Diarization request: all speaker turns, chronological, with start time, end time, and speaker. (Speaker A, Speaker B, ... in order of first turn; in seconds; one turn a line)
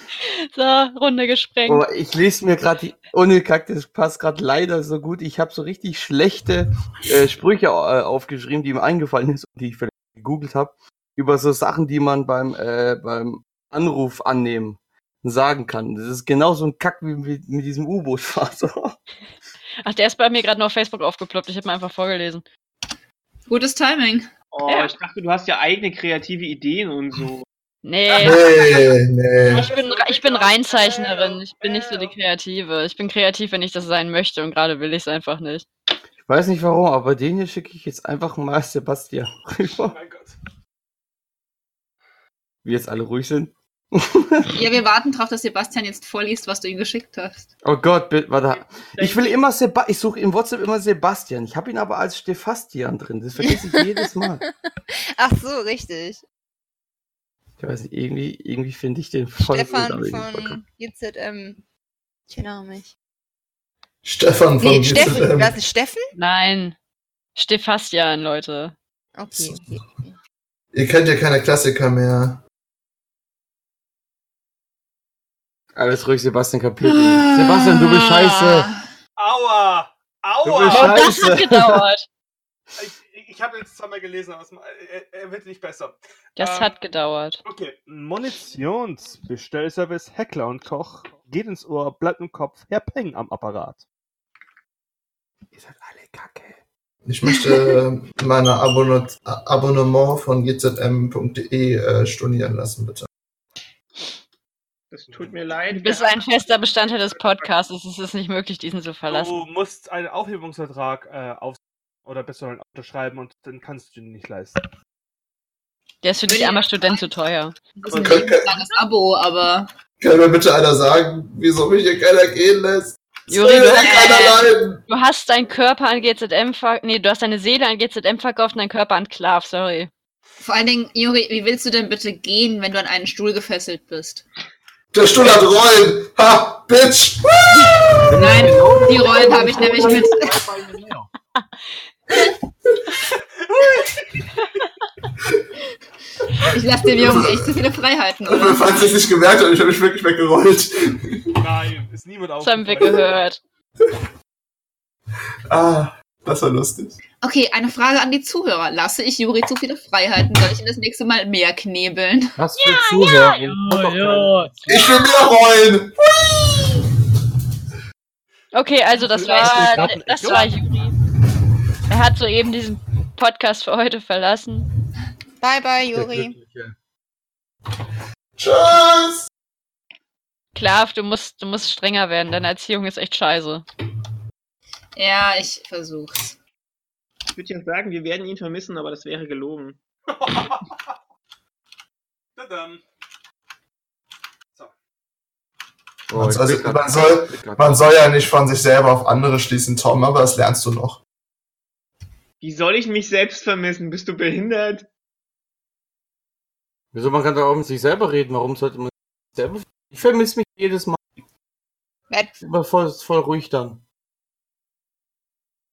Speaker A: 0.2-1.9
Speaker B: 1.7-19.0
Speaker A: 19.8-22.4
Speaker C: 23.5-24.3
Speaker D: 24.5-27.5
Speaker A: 24.7-24.9
Speaker A: 27.8-28.4
Speaker E: 28.2-28.7
Speaker F: 28.2-29.6
Speaker E: 29.5-32.2
Speaker A: 29.6-35.7
Speaker B: 36.2-40.0
Speaker E: 39.8-40.4
Speaker B: 42.6-44.5
Speaker C: 44.5-47.5
Speaker B: 47.6-54.4
Speaker G: 55.2-56.2
Speaker B: 57.6-60.6
Speaker G: 59.4-61.6
Speaker G: 62.3-62.9
Speaker F: 64.0-65.6
Speaker G: 64.6-66.1
Speaker A: 66.2-66.8
Speaker A: 67.3-68.8
Speaker G: 69.2-70.1
Speaker F: 69.3-69.6
Speaker F: 70.7-72.4
Speaker B: 75.8-78.7
Speaker C: 76.8-78.8
Speaker E: 79.2-81.4
Speaker B: 80.4-81.8
Speaker A: 80.7-82.1
Speaker E: 82.8-86.8
Speaker A: 86.4-87.4
Speaker E: 87.5-93.8
Speaker E: 95.5-96.6
Speaker F: 97.1-103.1
Speaker D: 104.9-106.3
Speaker A: 105.7-109.4
Speaker E: 109.1-114.6
Speaker A: 116.0-117.6
Speaker C: 116.3-117.1
Speaker C: 117.8-119.7
Speaker F: 118.0-118.6
Speaker F: 120.0-124.8
Speaker A: 123.3-129.9
Speaker C: 123.8-124.4
Speaker C: 130.4-134.2
Speaker F: 134.9-138.1
Speaker B: 138.1-141.1
Speaker C: 138.2-140.4
Speaker E: 143.4-144.1
Speaker A: 144.4-144.7
Speaker C: 146.5-148.9
Speaker F: 146.9-147.5
Speaker F: 148.2-151.4
Speaker E: 151.4-153.1
Speaker A: 152.4-153.4
Speaker F: 155.5-157.0
Speaker C: 157.2-162.4
Speaker B: 162.4-164.7
Speaker A: 162.6-164.8
Speaker F: 164.7-166.9
Speaker A: 168.5-170.9
Speaker E: 169.0-170.5
Speaker B: 169.3-170.5
Speaker A: 171.9-174.7
Speaker G: 175.4-176.3
Speaker B: 175.9-176.8
Speaker F: 178.4-179.3
Speaker A: 180.6-183.7
Speaker C: 185.0-186.4
Speaker D: 187.3-189.8
Speaker E: 190.1-190.9
Speaker E: 192.4-192.8
Speaker B: 196.1-197.9
Speaker F: 196.1-201.0
Speaker D: 202.4-204.9
Speaker B: 206.9-211.0
Speaker G: 212.1-212.3
Speaker B: 212.4-213.8